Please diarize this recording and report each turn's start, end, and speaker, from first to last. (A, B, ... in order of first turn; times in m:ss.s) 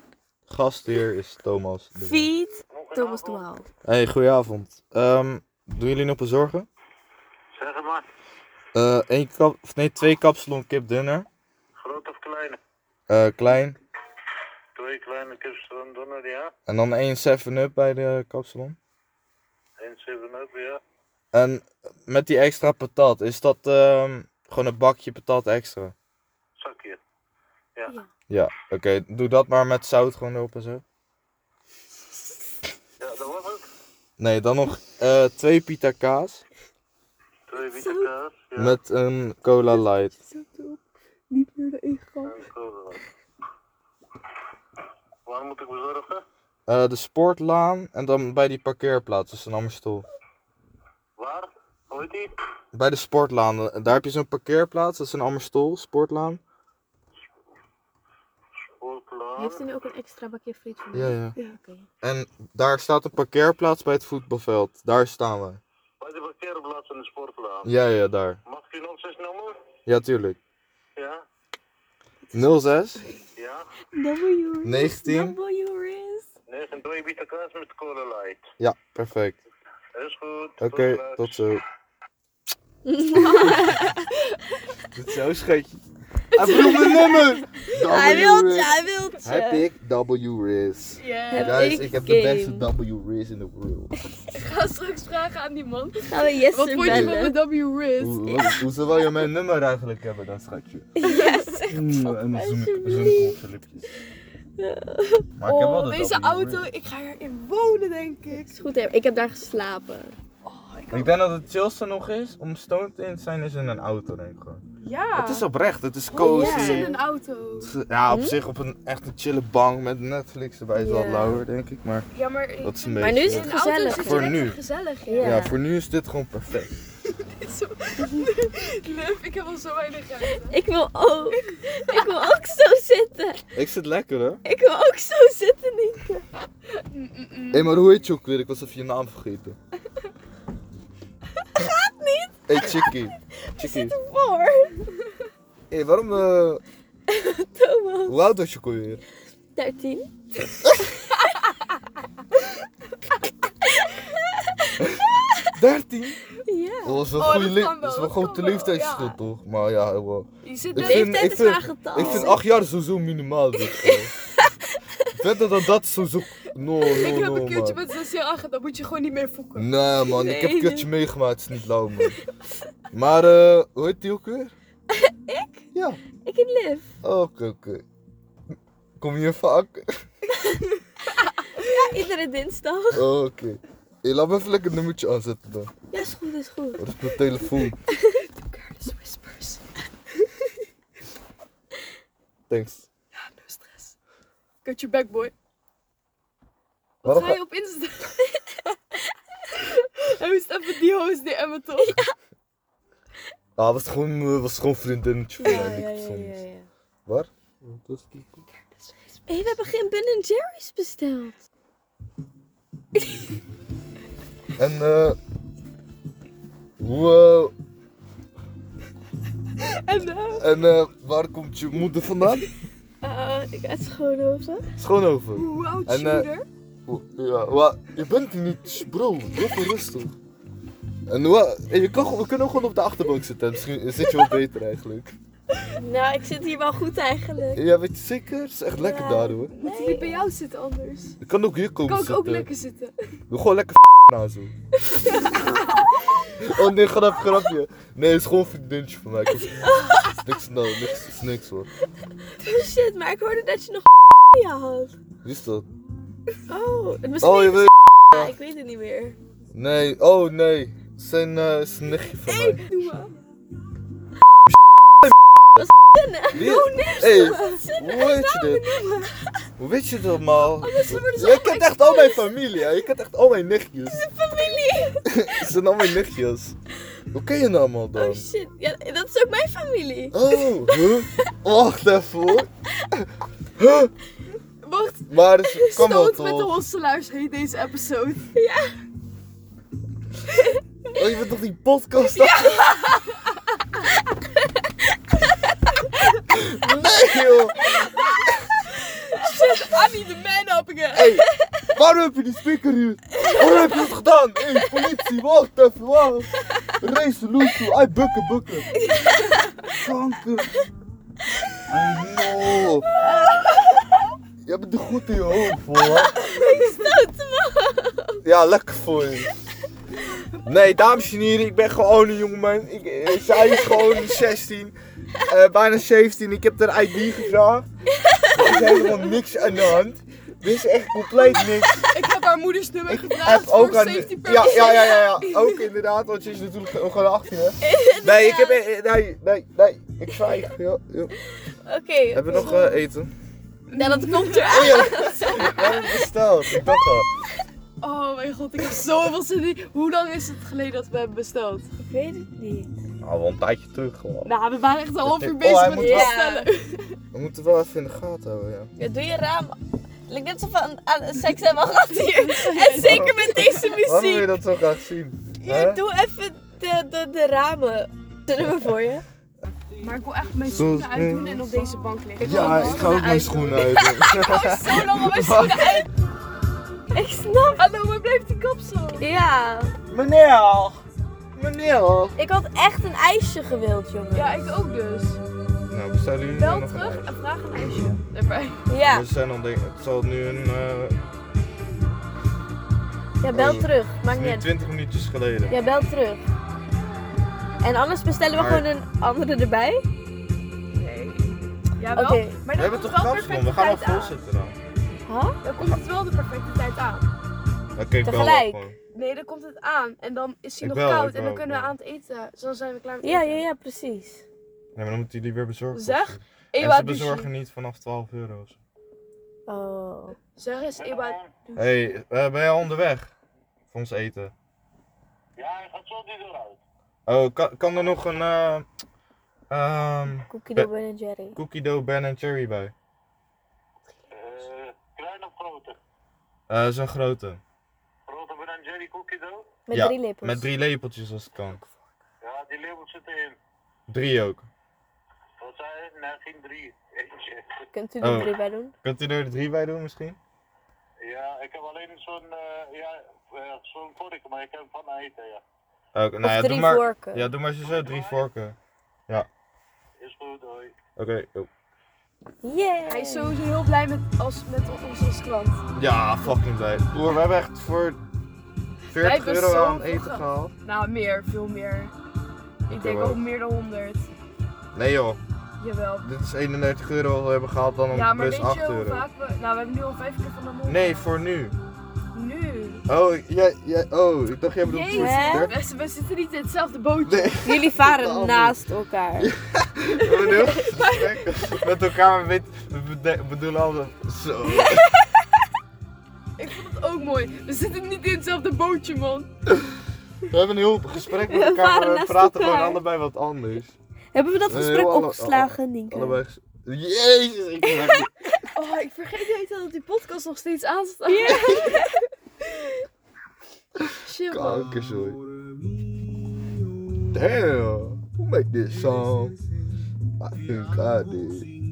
0:00.5-0:02.3 A
0:02.0-0:03.6 B
0:02.7-0:03.5 C
0:03.8-0:06.7 A
0:07.5-0:08.0 C
0:08.7-0:11.3 A
0:11.8-0:12.6 C
0:13.1-0:13.8 A
0:14.7-0:16.5 C
0:16.7-0:18.8 A
0:19.8-0:20.8 C
0:21.3-0:25.9 A
0:26.6-0:27.0 C
0:28.3-0:30.8 A
0:33.0-0:33.6 C
0:34.2-0:36.4 A
0:37.5-0:38.8 C
0:37.6-0:38.1 B
0:38.6-0:40.1 A
0:40.1-0:42.4 B
0:42.2-0:43.0 C
0:45.2-0:46.2 C
0:46.7-0:50.0 A
0:51.2-0:52.3 C
0:52.7-0:56.4 A
0:58.8-0:59.7 C
0:59.4-1:01.9 B
1:00.9-1:01.3 A
1:02.0-1:05.6 A
1:06.0-1:07.7 C
1:07.6-1:08.4 A
1:08.4-1:09.6 C
1:09.8-1:10.4 A
1:11.0-1:11.2 C
1:12.3-1:13.0 A
1:13.4-1:13.7 C
1:13.9-1:16.3 B
1:14.6-1:15.4 A
1:16.5-1:18.4 C
1:18.6-1:19.4 A
1:19.9-1:21.3 C
1:20.6-1:21.6 A
1:22.8-1:24.2 B
1:23.2-1:23.7 A
1:24.9-1:25.8 A
1:26.3-1:33.9 A
1:26.4-1:29.6 B
1:31.0-1:31.8 D
1:31.3-1:32.7 B
1:34.3-1:38.6 D
1:36.1-1:37.4 B
1:36.8-1:37.3 A
1:38.0-1:41.0 A
1:41.0-1:43.4 B
1:41.0-1:41.6 D
1:41.7-1:43.8 A
1:44.6-1:45.3 B
1:45.4-1:46.7 A
1:45.4-1:48.5 D
1:48.3-1:50.1 B
1:50.4-1:51.1 D
1:50.9-1:54.6 A
1:54.8-1:55.5 D
1:55.2-1:56.9 A
1:56.1-1:57.7 D
1:56.1-1:57.0 B
1:57.6-2:02.1 A
1:58.1-1:58.4 B
2:00.8-2:01.4 B
2:02.1-2:05.4 D
2:02.6-2:04.6 A
2:03.0-2:04.4 B
2:05.1-2:05.6 B
2:05.2-2:06.7 A
2:07.2-2:10.6 D
2:10.5-2:13.4 B
2:13.5-2:14.4 A
2:14.4-2:16.2 B
2:16.9-2:17.7 D
2:17.5-2:19.6 A
2:21.6-2:24.9 B
2:22.5-2:24.0 A
2:25.7-2:26.6 A
2:27.1-2:28.2 B
2:28.1-2:29.0 A
2:29.5-2:30.1 B
2:33.8-2:34.7 B
2:34.8-2:36.2 A
2:36.4-2:37.0 B
2:36.8-2:44.1 A
2:37.1-2:39.2 D
2:40.4-2:41.2 D
2:40.8-2:42.4 B
2:42.0-2:42.3 D
2:43.8-2:44.8 B
2:45.1-2:47.8 A
2:46.9-2:49.7 D
2:49.6-2:52.2 A
2:50.0-2:50.9 B
2:52.9-2:54.5 A
2:54.9-2:56.9 B
2:55.7-2:56.0 A
2:57.0-2:57.8 A
2:59.0-3:00.0 A
3:01.5-3:03.1 B
3:02.9-3:05.7 A
3:05.9-3:06.8 B
3:06.8-3:07.8 A
3:08.0-3:09.6 D
3:12.5-3:12.9 A
3:13.1-3:13.9 D
3:14.6-3:15.3 D
3:17.0-3:18.5 D
3:17.0-3:17.4 A
3:19.5-3:22.0 D
3:23.6-3:26.4 A
3:25.4-3:26.7 B
3:27.0-3:28.4 A
3:29.3-3:31.4 B
3:34.6-3:35.2 A
3:36.8-3:37.5 A
3:39.7-3:40.4 B
3:40.3-3:42.5 A
3:43.0-3:44.7 B
3:44.8-3:46.3 A
3:45.3-3:46.4 D
3:46.9-3:50.1 A
3:51.1-3:55.1 A
3:55.7-3:57.6 B
3:57.5-3:59.5 A
3:58.7-4:00.3 B
3:59.5-4:01.2 D
4:01.2-4:02.5 A
4:01.8-4:02.9 D
4:03.3-4:04.5 A
4:06.3-4:11.7 A
4:09.6-4:10.2 B
4:12.4-4:14.9 B
4:15.2-4:15.6 A
4:16.5-4:19.2 B
4:17.2-4:18.3 A
4:19.5-4:22.6 A
4:22.3-4:23.2 D
4:25.0-4:25.6 A
4:25.6-4:29.5 B
4:26.3-4:28.6 A
4:29.6-4:34.0 A
4:30.4-4:32.2 B
4:33.9-4:35.3 B
4:35.0-4:36.5 A
4:37.1-4:38.2 A
4:37.9-4:41.3 B
4:40.1-4:43.9 A
4:44.6-4:48.3 D
4:45.1-4:46.6 A
4:48.3-4:48.8 B
4:50.9-4:52.6 A
4:52.2-4:53.1 B
4:56.3-4:57.8 A
4:59.0-5:01.2 D
4:59.2-4:59.6 B
5:00.9-5:08.7 A
5:08.8-5:09.7 B
5:09.7-5:10.6 A
5:11.7-5:12.9 A
5:13.0-5:13.8 B
5:14.4-5:16.2 A
5:15.9-5:18.2 B
5:18.2-5:19.3 A
5:20.4-5:24.7 A
5:25.2-5:27.7 A
5:28.0-5:29.0 B
5:28.3-5:31.9 A
5:31.9-5:35.5 D
5:32.9-5:41.2 A
5:37.6-5:38.6 B
5:41.6-5:42.7 B
5:42.1-5:43.1 A
5:42.3-5:42.8 D
5:43.7-5:45.7 D
5:43.7-5:46.0 B
5:44.5-5:47.1 A
5:47.8-5:51.7 D
5:51.8-5:52.7 B
5:53.0-5:54.3 A
5:54.2-5:56.8 D
5:55.0-5:56.1 A
5:55.7-5:56.5 B
5:57.1-5:58.7 A
5:58.8-6:04.3 B
6:02.0-6:03.8 D
6:02.8-6:05.8 A
6:05.4-6:09.0 B
6:09.8-6:15.8 D
6:10.4-6:11.6 A
6:12.2-6:15.9 A
6:12.2-6:13.9 B
6:16.9-6:17.6 B
6:17.6-6:19.1 D
6:19.0-6:19.7 B
6:19.9-6:20.8 A
6:21.3-6:22.2 A
6:22.2-6:24.5 B
6:24.1-6:25.2 D
6:25.7-6:27.1 A
6:26.3-6:28.6 D
6:28.7-6:29.0 B
6:28.8-6:31.0 A
6:33.2-6:34.5 B
6:33.3-6:35.6 A
6:35.5-6:36.2 B
6:37.6-6:39.8 B
6:38.3-6:38.6 A
6:40.7-6:44.2 D
6:41.9-6:42.4 B
6:42.5-6:44.6 A
6:45.1-6:45.4 B
6:45.4-6:47.1 D
6:47.8-6:48.8 A
6:48.0-6:48.7 B
6:48.9-6:53.5 D
6:50.6-6:51.7 A
6:53.0-6:54.2 B
6:54.7-6:58.6 A
6:55.7-6:57.3 D
6:59.5-7:00.2 B
7:00.4-7:01.6 D
7:00.8-7:01.3 C
7:01.5-7:03.1 A
7:03.7-7:04.3 A
7:05.4-7:06.6 C
7:07.0-7:08.6 A
7:09.5-7:10.7 A
7:10.3-7:11.4 B
7:11.3-7:12.7 A
7:14.1-7:15.8 C
7:16.5-7:17.4 A
7:18.1-7:19.4 C
7:19.7-7:20.5 B
7:19.7-7:21.6 A
7:22.2-7:23.4 C
7:23.9-7:24.5 A
7:25.4-7:27.6 C
7:27.7-7:28.7 B
7:28.0-7:28.3 A
7:28.8-7:30.2 A
7:31.0-7:35.4 C
7:35.9-7:38.6 A
7:36.2-7:37.3 B
7:37.6-7:38.2 C
7:40.0-7:40.7 C
7:41.0-7:41.5 A
7:42.4-7:43.4 B
7:42.9-7:45.6 D
7:45.7-7:48.0 A
7:48.9-7:51.9 D
7:48.9-7:50.5 A
7:52.7-7:53.2 A
7:52.7-7:54.1 D
7:54.7-7:55.2 A
7:55.6-7:56.1 D
7:56.0-7:59.1 A
7:57.9-8:01.1 D
8:00.7-8:01.6 A
8:02.1-8:02.8 D
8:02.9-8:05.6 A
8:04.7-8:07.4 D
8:04.9-8:05.5 B
8:07.0-8:08.6 A
8:07.4-8:09.3 B
8:09.2-8:14.9 A
8:10.3-8:10.9 B
8:14.6-8:15.1 B
8:16.4-8:19.3 D
8:20.3-8:23.8 A
8:21.1-8:22.8 B
8:24.1-8:26.2 B
8:24.5-8:28.1 A
8:27.6-8:27.9 B
8:28.5-8:31.8 D
8:31.1-8:32.0 B
8:31.4-8:31.8 A
8:34.0-8:34.7 D
8:34.3-8:35.2 A
8:37.1-8:39.4 A
8:40.2-8:41.5 A